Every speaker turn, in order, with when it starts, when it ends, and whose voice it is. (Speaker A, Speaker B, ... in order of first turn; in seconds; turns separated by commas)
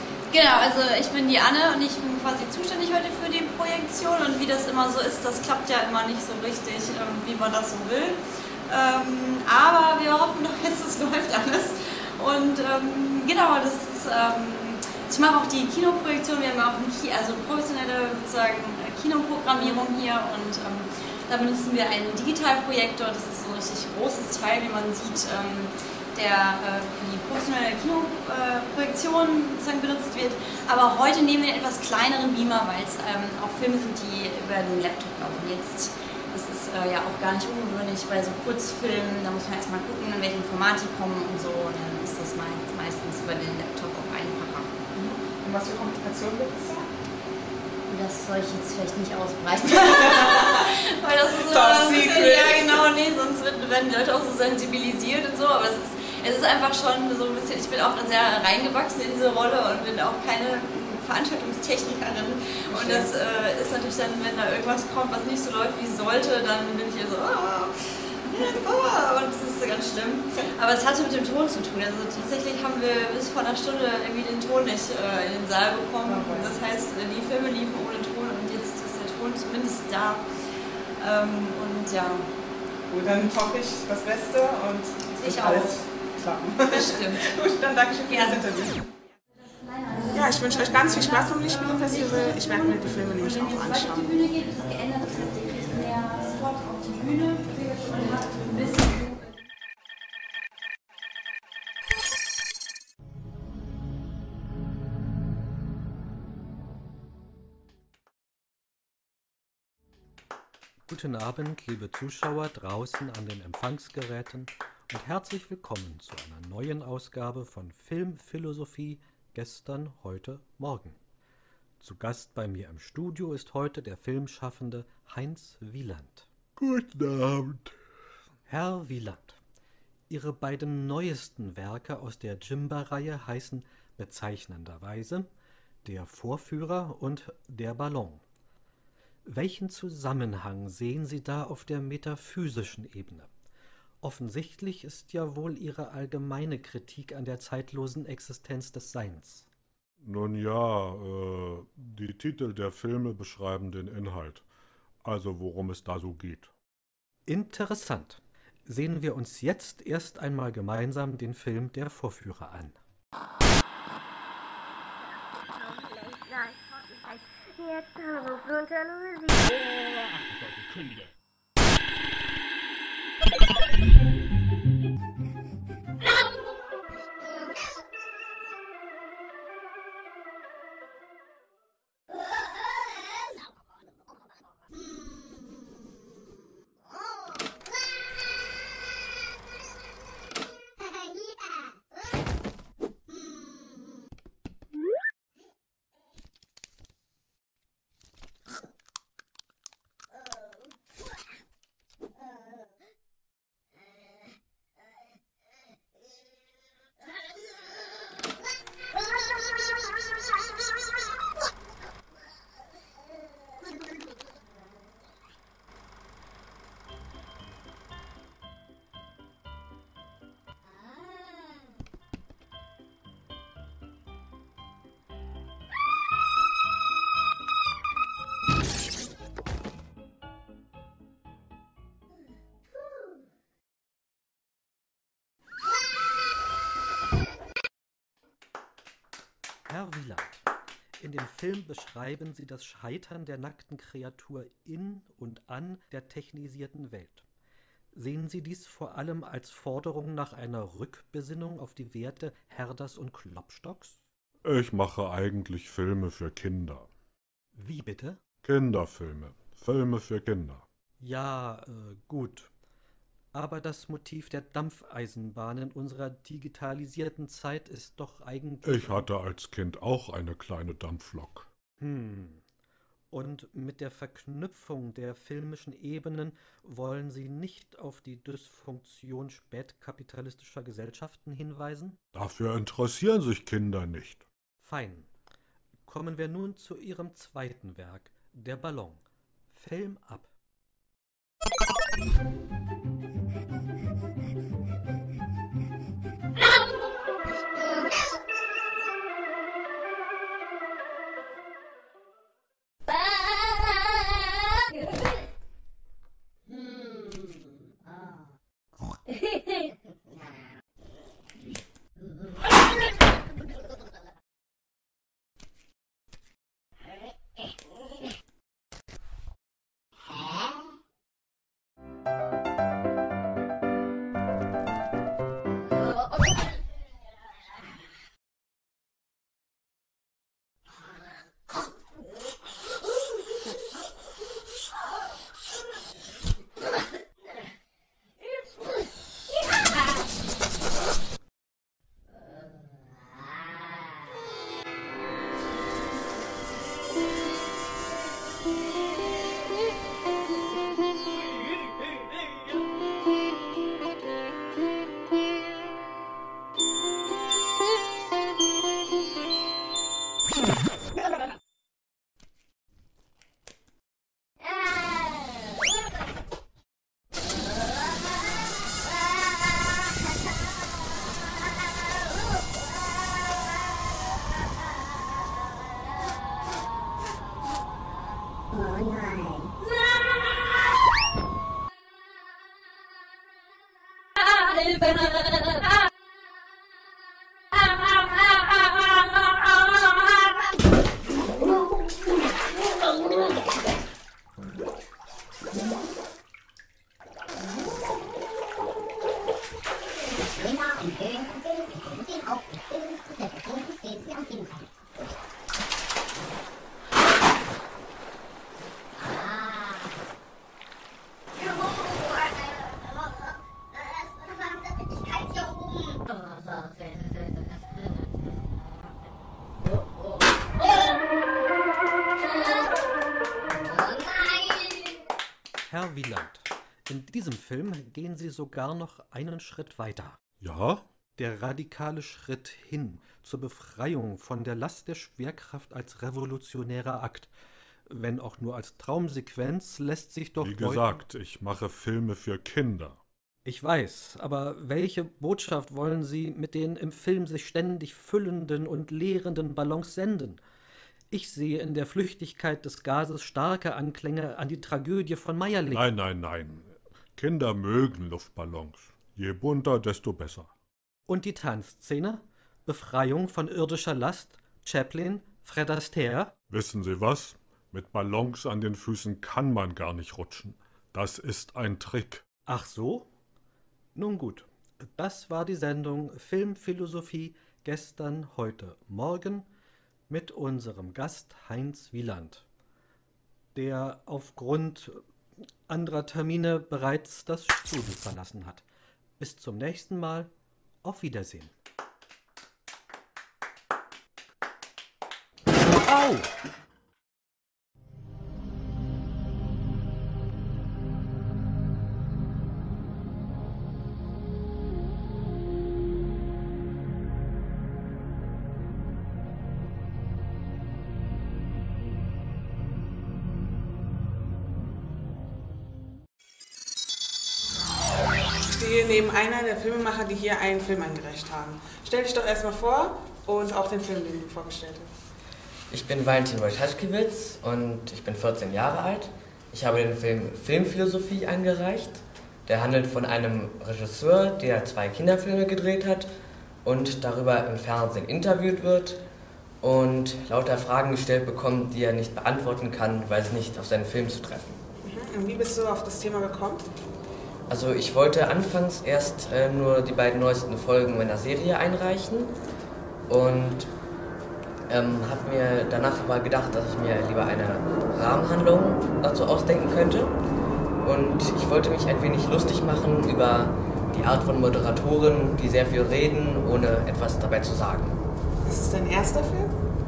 Speaker A: 0.3-44.8, Speaker B: 44.9-46.9, Speaker A: 47.9-67.7, Speaker B: 49.8-50.6, Speaker B: 51.4-52.9, Speaker B: 62.7-63.1, Speaker A: 68.2-80.2, Speaker B: 76.0-76.5, Speaker A: 81.0-82.3, Speaker B: 82.9-88.9, Speaker A: 85.2-85.8, Speaker A: 86.7-87.2, Speaker A: 88.1-88.4, Speaker B: 90.1-94.1, Speaker A: 94.4-97.5, Speaker C: 110.9-121.0, Speaker C: 121.8-126.3, Speaker D: 126.6-127.7, Speaker C: 128.5-129.4, Speaker C: 130.1-135.3, Speaker C: 135.8-138.2, Speaker C: 139.2-143.3, Speaker C: 144.0-149.5, Speaker D: 150.0-154.4, Speaker D: 155.0-156.5, Speaker C: 157.3-162.8, Speaker C: 239.7-240.4, Speaker C: 241.0-247.2, Speaker C: 247.9-254.0, Speaker D: 254.4-256.9, Speaker C: 257.5-258.2, Speaker D: 258.4-260.6, Speaker C: 261.0-262.5, Speaker C: 263.3-269.1, Speaker D: 268.6-271.5, Speaker C: 271.8-272.4, Speaker C: 273.1-282.0, Speaker D: 282.1-284.2, Speaker C: 284.6-285.1, Speaker C: 285.9-290.3, Speaker C: 425.7-430.2, Speaker D: 430.4-430.9, Speaker C: 431.2-437.3, Speaker C: 437.9-441.0, Speaker D: 440.4-443.0, Speaker C: 443.4-450.4, Speaker C: 451.1-455.8, Speaker D: 455.7-460.5, Speaker C: 461.1-466.4, Speaker D: 466.5-472.2, Speaker C: 472.4-473.1, Speaker C: 473.9-479.4, Speaker C: 480.1-482.4, Speaker C: 483.5-485.0, Speaker C: 485.7-488.6, Speaker C: 489.2-490.3, Speaker C: 490.8-491.5, Speaker C: 495.8-496.3, Speaker B: 518.5-524.9, Speaker E: 525.7-536.1, Speaker E: 536.6-539.0, Speaker E: 539.6-544.6, Speaker B: 544.8-546.6, Speaker E: 547.5-552.3, Speaker E: 553.1-553.7, Speaker E: 554.7-560.1, Speaker E: 560.8-568.0, Speaker B: 568.4-569.5